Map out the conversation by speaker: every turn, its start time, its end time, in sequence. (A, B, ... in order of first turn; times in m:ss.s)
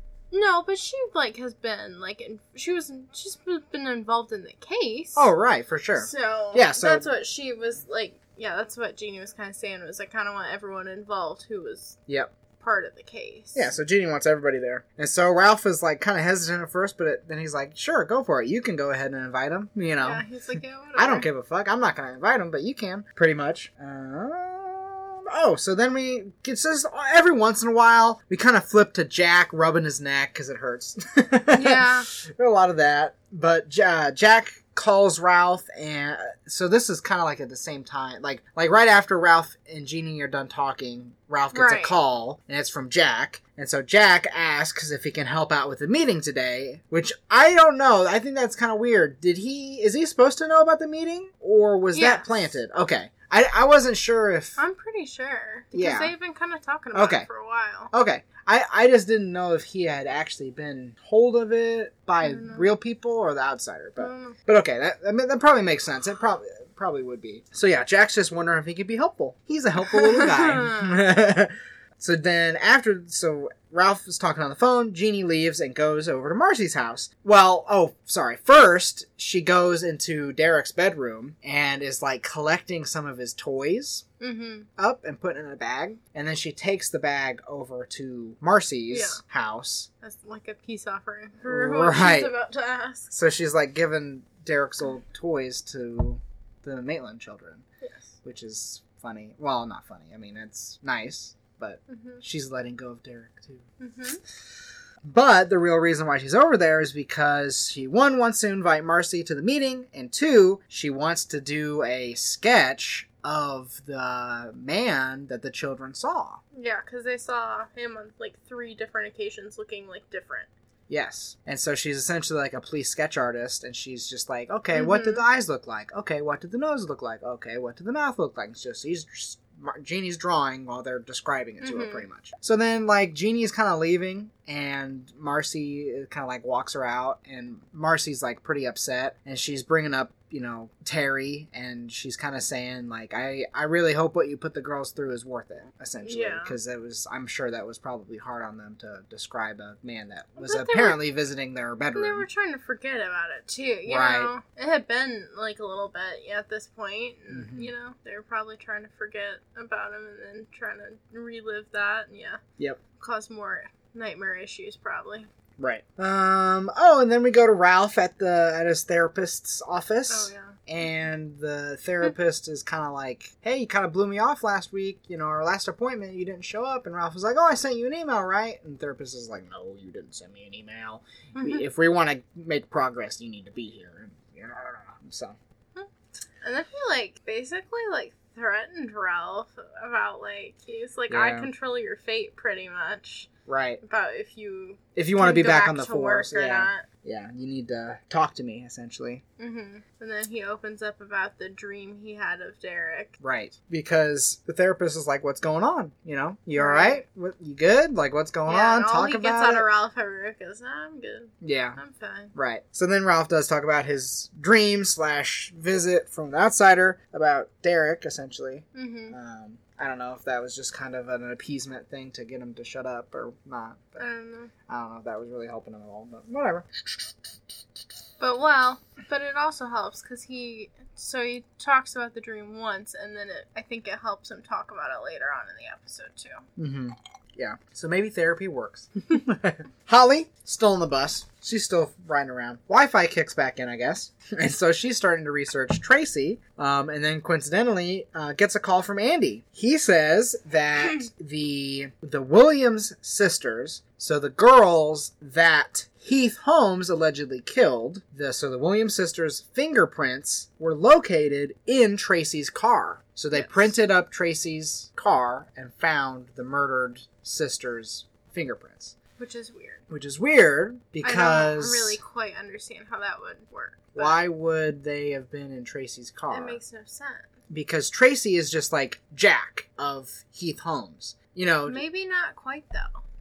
0:00.3-0:05.2 A
0:05.2-0:07.0 B
0:06.0-0:12.0 A
0:12.6-0:13.7 A
0:13.6-0:20.2 B
0:20.0-0:21.3 A
0:21.0-0:54.6 B
0:31.5-0:32.1 A
0:41.5-0:42.0 A
0:51.9-0:52.5 A
0:54.6-0:57.9 A
0:55.7-0:56.1 B
0:56.9-0:57.3 B
0:57.9-1:24.1 B
1:02.2-1:02.8 A
1:04.0-1:04.4 A
1:09.8-1:11.0 A
1:24.2-1:24.7 A
1:24.8-1:29.9 B
1:28.9-1:29.2 A
1:30.0-1:33.1 A
1:31.4-1:32.3 B
1:33.1-1:37.7 B
1:37.8-1:38.1 A
1:38.2-1:43.7 B
1:41.9-1:42.2 A
1:43.8-1:44.2 A
1:45.1-1:56.4 B
1:56.5-2:00.5 A
2:00.9-2:32.3 B
2:04.7-2:05.2 A
2:11.6-2:12.0 A
2:26.0-2:26.6 A
2:30.4-2:31.0 A
2:31.9-2:42.4 A
2:33.9-2:34.3 B
2:37.3-2:37.7 B
2:43.0-2:45.3 A
2:45.6-3:05.4 B
2:50.1-2:50.6 A
3:01.4-3:01.6 A
3:05.8-3:13.3 A
3:11.1-3:11.5 B
3:13.5-3:13.8 B
3:13.8-3:16.9 A
3:15.0-3:19.2 B
3:19.4-3:23.2 A
3:23.2-3:29.7 B
3:26.6-3:27.0 A
3:28.5-3:32.3 A
3:31.4-3:31.8 B
3:32.3-3:44.0 B
3:38.7-3:39.2 A
3:44.0-3:44.5 A
3:44.7-3:47.1 B
3:48.2-3:56.5 A
3:56.6-4:29.0 B
4:10.8-4:11.1 A
4:23.3-4:23.7 A
4:29.2-4:29.8 A
4:29.9-4:32.0 B
4:31.0-4:34.2 A
4:33.9-4:36.6 B
4:36.3-4:37.3 A
4:37.5-4:41.8 B
4:41.7-4:43.0 A